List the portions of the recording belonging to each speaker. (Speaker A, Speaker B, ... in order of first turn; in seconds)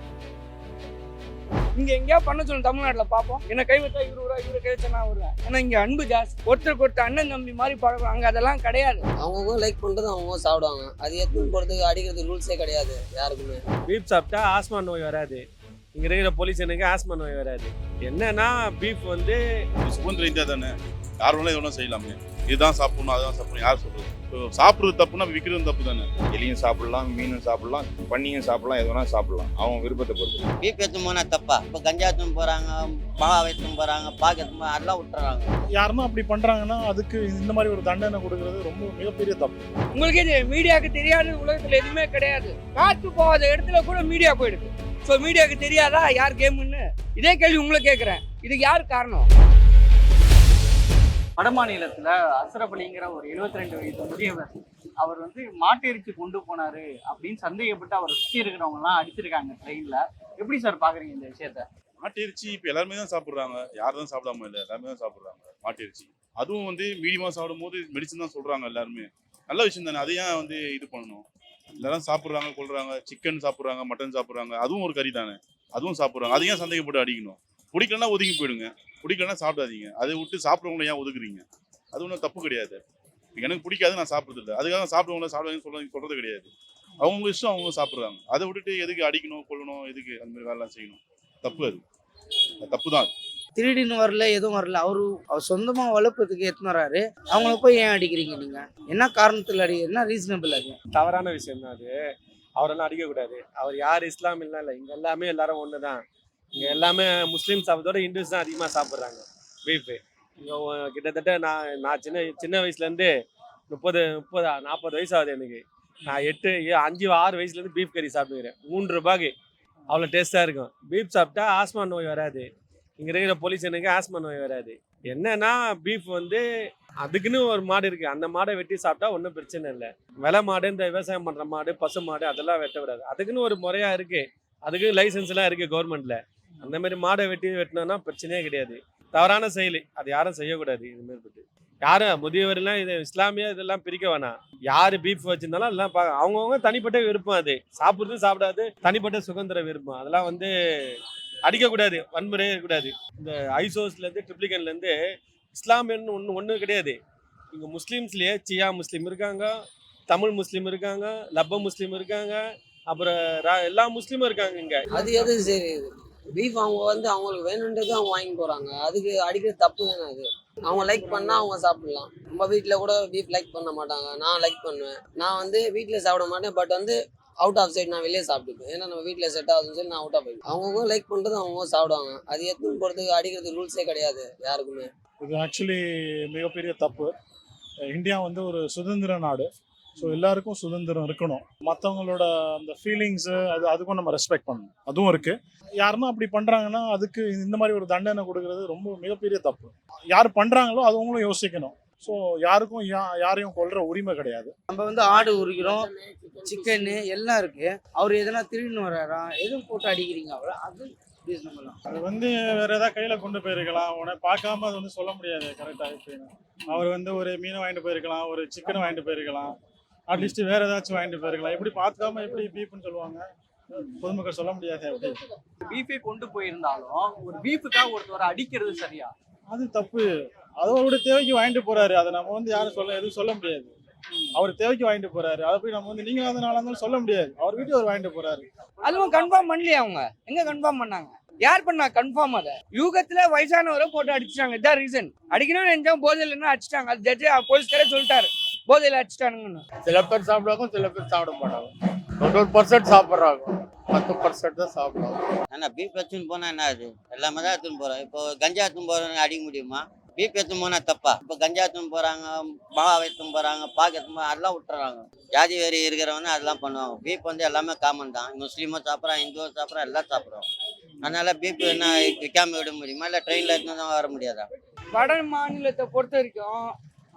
Speaker A: 1.7-9.0, 39.9-49.3, 238.8-249.6, 274.9-276.7
Speaker B: 9.2-13.6, 164.9-184.9, 205.2-207.0
Speaker C: 13.8-19.4, 100.9-102.0, 102.6-106.0, 106.5-113.1, 113.7-119.3, 119.9-122.5, 123.0-126.4, 127.0-154.9, 155.5-157.0, 157.5-159.5, 160.1-165.0
Speaker D: 19.8-26.1, 62.0-71.2, 71.8-82.8, 83.4-86.5, 87.0-91.8, 92.6-93.1
Speaker E: 26.3-30.5
Speaker F: 30.6-35.5, 255.5-270.4, 271.0-274.4
Speaker G: 35.7-39.7, 185.2-187.1, 187.9-189.5, 190.0-204.5, 211.9-219.5, 220.1-223.2, 223.8-225.2, 229.5-233.7, 234.3-238.4
Speaker H: 51.4-61.6, 225.6-229.1
Speaker I: 93.6-100.8, 204.7-205.9, 206.4-211.8
Speaker J: 249.8-251.7, 252.2-255.2